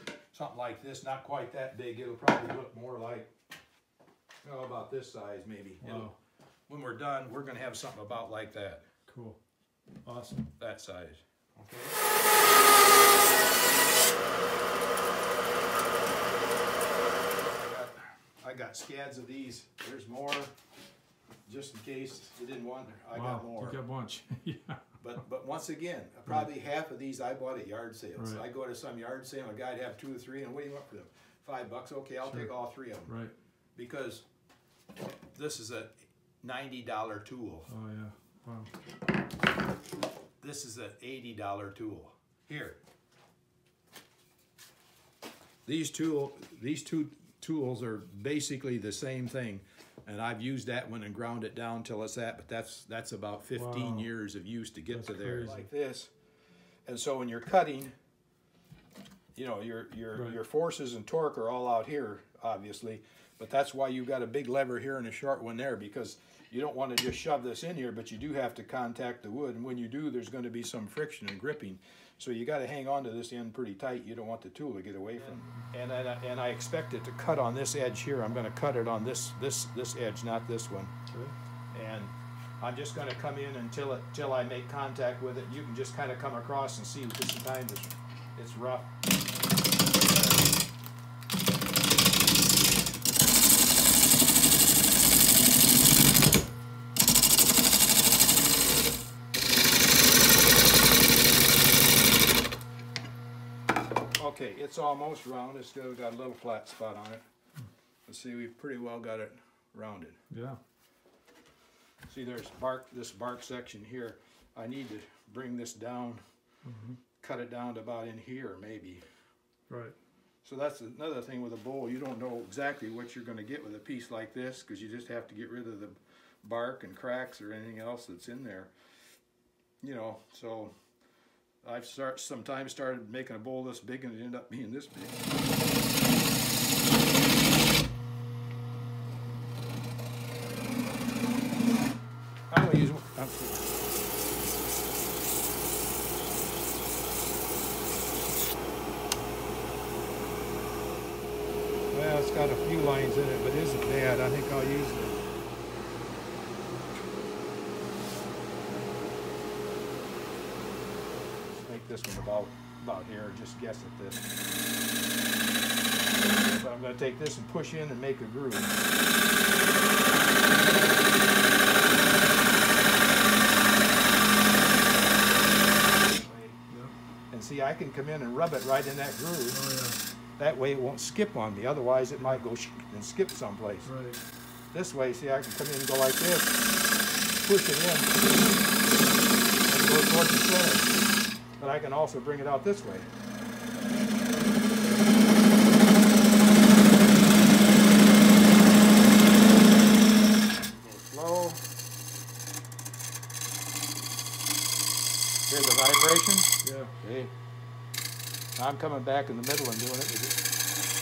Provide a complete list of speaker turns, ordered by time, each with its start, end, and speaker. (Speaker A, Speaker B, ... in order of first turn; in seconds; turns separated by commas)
Speaker A: 0.3-3.3, Speaker A: 4.4-6.1, Speaker B: 5.8-6.2, Speaker A: 6.7-8.9, Speaker B: 9.1-9.4, Speaker B: 10.1-10.5, Speaker A: 10.6-12.0, Speaker A: 17.4-20.5, Speaker A: 21.5-23.8, Speaker B: 23.1-25.0, Speaker A: 25.0-33.1, Speaker B: 28.2-28.4, Speaker B: 32.2-32.5, Speaker B: 33.1-33.3, Speaker A: 33.8-34.2, Speaker A: 35.3-37.7, Speaker B: 37.7-38.7, Speaker A: 40.4-42.8, Speaker A: 45.7-56.1, Speaker B: 53.5-54.1, Speaker B: 54.9-55.6, Speaker A: 56.9-58.0, Speaker A: 59.4-80.9, Speaker B: 75.2-75.6, Speaker B: 81.1-81.3, Speaker A: 81.7-88.9, Speaker A: 89.9-90.5, Speaker A: 104.2-107.2, Speaker A: 108.1-110.2, Speaker B: 110.3-110.6, Speaker A: 112.1-116.2, Speaker B: 116.7-117.0, Speaker A: 117.2-119.0, Speaker B: 119.7-119.9, Speaker A: 120.4-128.7, Speaker A: 129.8-130.7, Speaker A: 131.6-135.2, Speaker A: 142.5-143.7, Speaker A: 151.9-155.2, Speaker A: 161.5-164.2, Speaker A: 166.6-168.8, Speaker A: 175.9-176.6, Speaker A: 177.3-179.6, Speaker B: 179.5-180.0, Speaker A: 180.4-183.9, Speaker B: 183.8-184.2, Speaker A: 184.7-186.6, Speaker A: 187.4-188.3, Speaker A: 189.7-191.0, Speaker A: 191.6-193.1, Speaker A: 200.5-201.6, Speaker A: 205.5-207.3, Speaker B: 206.6-206.9, Speaker A: 208.6-210.4